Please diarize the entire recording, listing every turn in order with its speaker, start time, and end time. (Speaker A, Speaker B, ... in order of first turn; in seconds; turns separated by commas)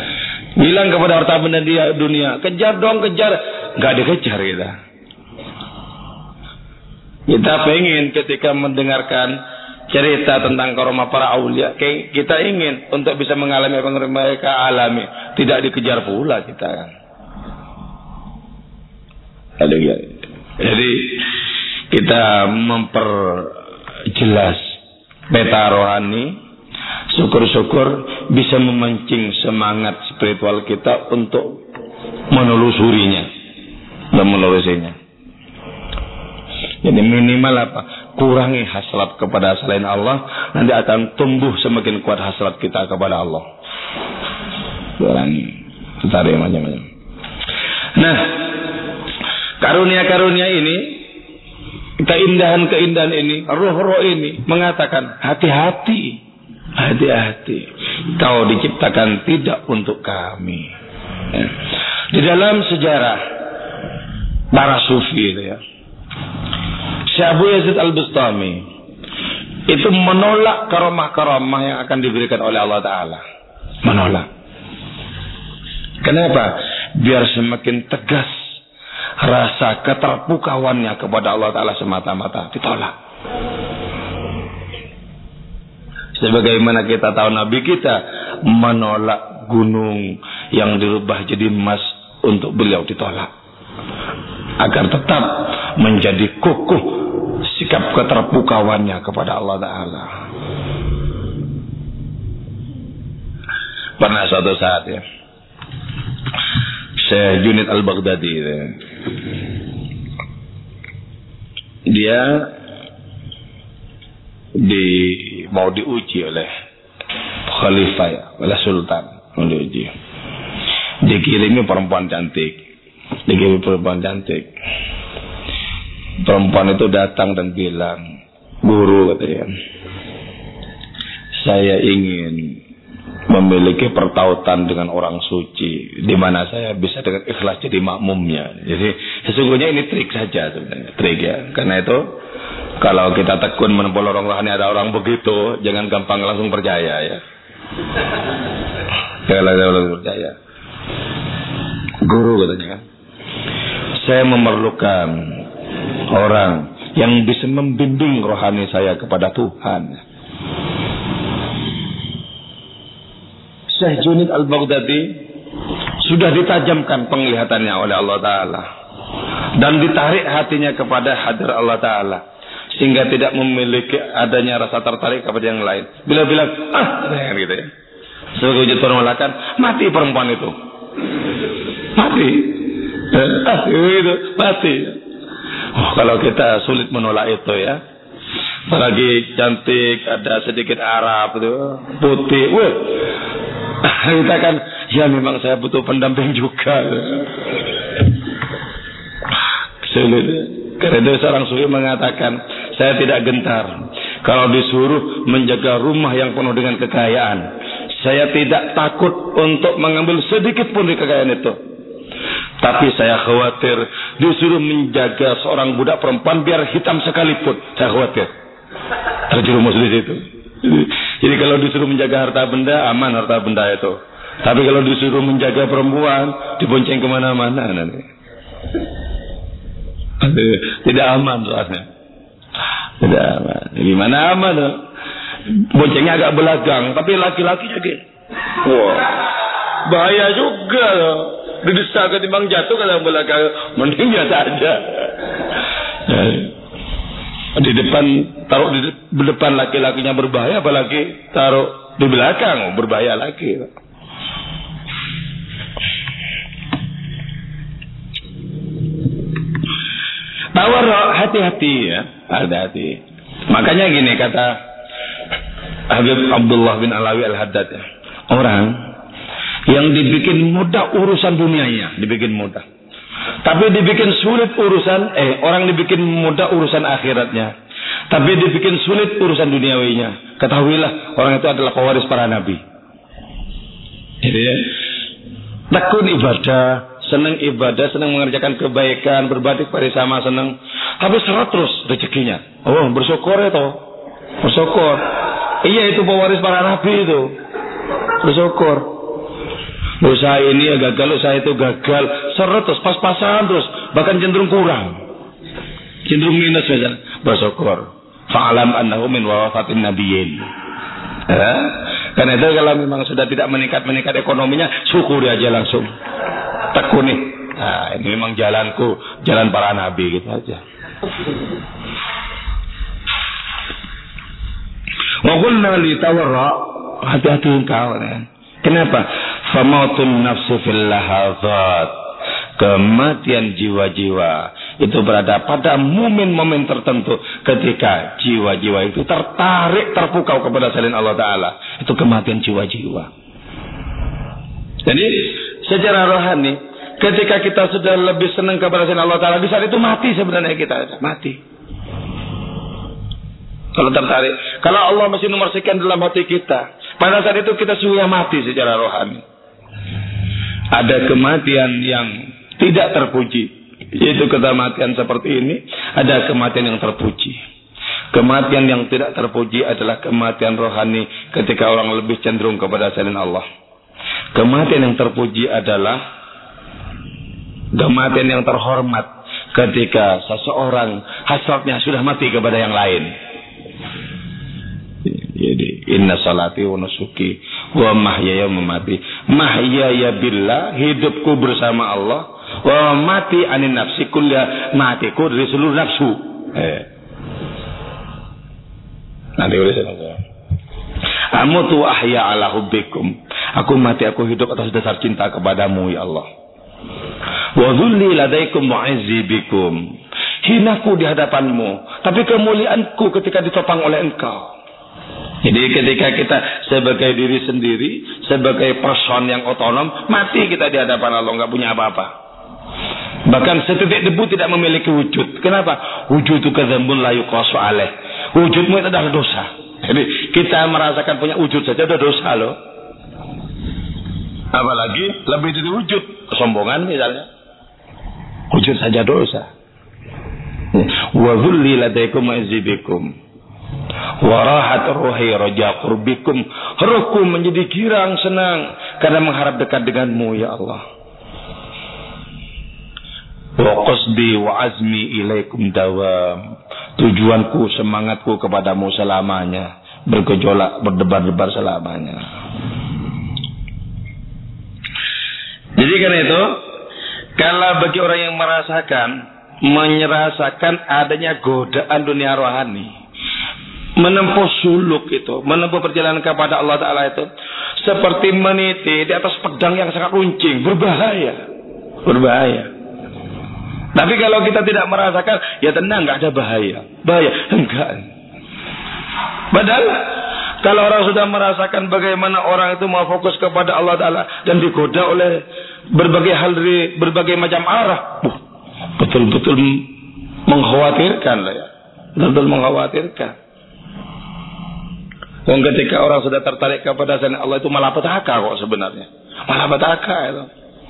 Speaker A: 0.6-4.8, Speaker A: 7.3-9.4, Speaker A: 9.9-16.9, Speaker A: 19.6-21.3, Speaker A: 21.9-23.6, Speaker A: 24.1-24.6, Speaker A: 25.3-26.4, Speaker A: 27.1-31.6, Speaker A: 32.3-33.3, Speaker A: 34.1-35.0, Speaker A: 36.8-43.5, Speaker A: 45.0-46.9, Speaker A: 48.0-48.6, Speaker A: 49.6-51.0, Speaker A: 52.0-56.2, Speaker A: 56.8-60.7, Speaker A: 62.1-63.2, Speaker A: 64.5-65.6, Speaker A: 67.1-68.6, Speaker A: 69.7-73.2, Speaker A: 73.8-74.3, Speaker A: 76.0-78.3, Speaker A: 79.2-82.9, Speaker A: 86.2-93.3, Speaker A: 94.6-100.1, Speaker A: 104.0-105.0, Speaker A: 107.0-108.8, Speaker A: 111.9-112.5, Speaker A: 114.6-116.5, Speaker A: 117.5-119.9, Speaker A: 121.0-122.6, Speaker A: 123.3-124.5, Speaker A: 126.2-128.0, Speaker A: 128.6-129.5, Speaker A: 131.4-132.6, Speaker A: 133.3-142.1, Speaker A: 142.8-147.2, Speaker A: 149.3-150.3, Speaker A: 152.0-152.8, Speaker A: 154.0-155.4, Speaker A: 156.1-160.0, Speaker A: 163.7-165.2, Speaker A: 166.0-168.7, Speaker A: 169.6-172.2, Speaker A: 172.7-177.7, Speaker A: 178.4-180.5, Speaker A: 182.0-185.0, Speaker A: 185.8-187.8, Speaker A: 188.7-193.2, Speaker A: 193.8-197.4, Speaker A: 199.8-211.6, Speaker A: 212.6-218.3, Speaker A: 219.3-228.1, Speaker A: 230.2-231.9, Speaker A: 233.0-234.8, Speaker A: 235.5-238.0, Speaker A: 238.6-239.2, Speaker A: 239.8-245.3, Speaker A: 246.1-246.5, Speaker A: 247.6-253.7, Speaker A: 260.6-264.5, Speaker A: 265.9-268.8, Speaker A: 269.7-272.6, Speaker A: 273.4-277.5, Speaker A: 278.1-282.6, Speaker A: 284.2-284.7, Speaker A: 285.7-293.8, Speaker A: 294.4-295.0, Speaker A: 295.6-297.4, Speaker A: 298.2-298.9, Speaker A: 300.0-305.0, Speaker A: 306.1-310.4, Speaker A: 311.3-315.9, Speaker A: 316.7-320.6, Speaker A: 325.2-332.0, Speaker A: 332.6-343.1, Speaker A: 344.9-351.4, Speaker A: 353.8-359.2, Speaker A: 360.7-367.4, Speaker A: 368.1-373.4, Speaker A: 374.3-376.0, Speaker A: 377.8-383.1, Speaker A: 385.1-396.9, Speaker A: 399.4-400.2, Speaker A: 401.3-406.3, Speaker A: 407.6-409.8, Speaker A: 410.4-414.5, Speaker A: 415.4-422.1, Speaker A: 423.3-432.6, Speaker A: 434.5-437.3, Speaker A: 438.5-439.5, Speaker A: 440.7-443.1, Speaker A: 444.2-450.8, Speaker A: 453.6-462.2, Speaker A: 465.8-466.6, Speaker A: 467.4-472.9, Speaker A: 474.0-477.3, Speaker A: 477.8-481.4, Speaker A: 482.1-482.7, Speaker A: 483.9-488.1, Speaker A: 489.5-495.4, Speaker A: 495.9-498.4, Speaker A: 499.0-499.9, Speaker A: 500.5-503.3, Speaker A: 505.4-510.5